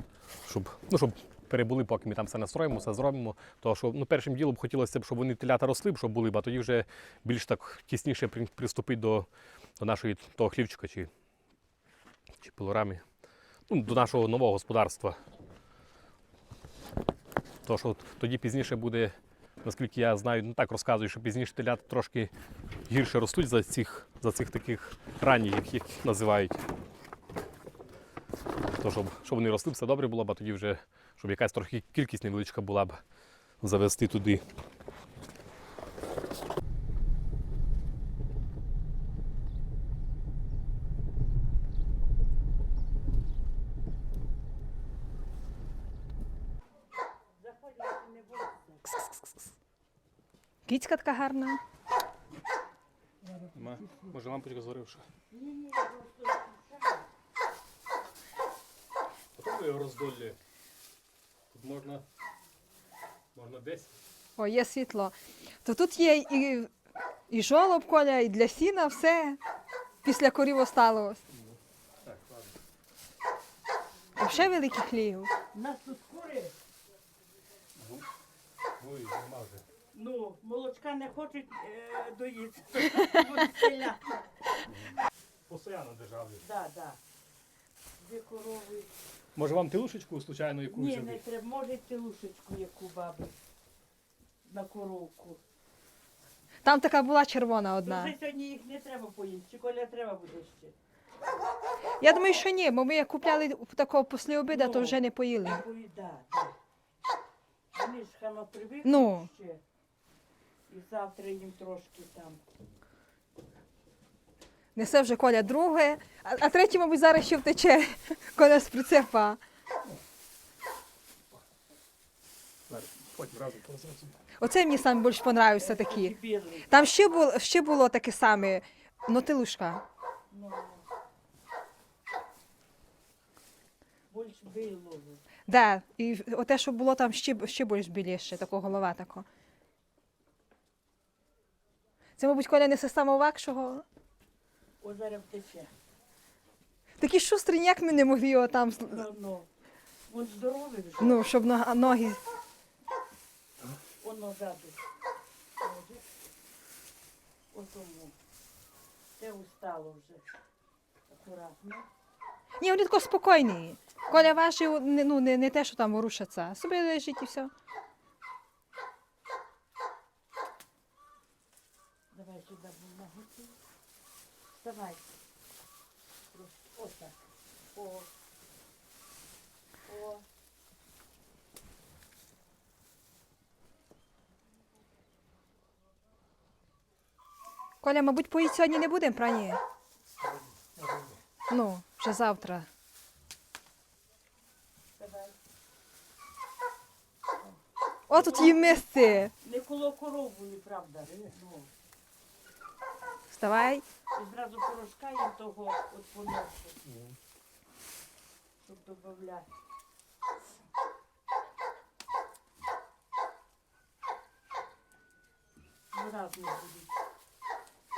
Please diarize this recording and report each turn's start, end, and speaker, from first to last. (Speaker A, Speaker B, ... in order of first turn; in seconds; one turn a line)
Speaker A: 0.4-9.3
Speaker A: 9.8-11.1
Speaker A: 12.4-13.0
Speaker A: 13.7-15.2
Speaker A: 17.6-22.3
Speaker A: 22.9-26.6
Speaker A: 28.7-33.0
Speaker A: 33.6-34.4
Speaker B: 47.4-48.9
Speaker C: 50.6-51.6
Speaker B: 53.2-54.1
Speaker A: 53.5-55.0
Speaker B: 55.3-57.1
Speaker A: 59.4-60.4
Speaker A: 61.5-62.0
Speaker A: 63.3-63.9
Speaker C: 64.4-66.7
Speaker C: 67.3-69.4
Speaker C: 70.0-71.2
Speaker A: 71.3-72.5
Speaker C: 74.2-75.3
Speaker B: 75.5-76.5
Speaker A: 77.8-78.0
Speaker A: 78.8-79.6
Speaker B: 79.9-84.2
Speaker A: 85.5-86.4
Speaker B: 86.4-87.0
Speaker B: 88.0-88.9
Speaker A: 89.3-91.2
Speaker B: 90.7-93.3
Speaker B: 94.4-95.4
Speaker C: 96.6-98.1
Speaker B: 97.8-100.7
Speaker C: 102.0-105.6
Speaker B: 104.5-106.5
Speaker B: 107.7-109.6
Speaker C: 108.8-109.3
Speaker B: 110.7-112.4
Speaker C: 114.7-119.4
Speaker A: 122.7-124.1
Speaker C: 124.4-126.2
Speaker B: 125.6-126.7
Speaker C: 126.7-129.8
Speaker B: 130.3-130.8
Speaker B: 134.1-135.2
Speaker C: 135.5-139.2
Speaker C: 142.2-143.8
Speaker B: 144.8-145.7
Speaker C: 147.0-149.1
Speaker B: 148.8-149.5
Speaker B: 150.1-151.3
Speaker C: 151.0-152.2
Speaker B: 154.0-154.8
Speaker B: 155.6-156.0
Speaker B: 157.5-158.1
Speaker B: 159.2-160.3
Speaker B: 161.1-161.9
Speaker C: 162.6-167.5
Speaker B: 172.1-173.6
Speaker B: 174.5-175.0
Speaker B: 176.3-177.2
Speaker B: 177.7-178.1
Speaker B: 179.9-180.2
Speaker C: 187.8-189.6
Speaker A: 190.2-191.2
Speaker C: 191.5-192.7
Speaker B: 195.0-195.3
Speaker C: 198.1-199.3
Speaker B: 198.1-198.8
Speaker B: 199.4-201.7
Speaker C: 203.3-203.8
Speaker B: 204.1-206.8
Speaker A: 206.9-207.1
Speaker B: 208.6-209.5
Speaker B: 215.9-216.9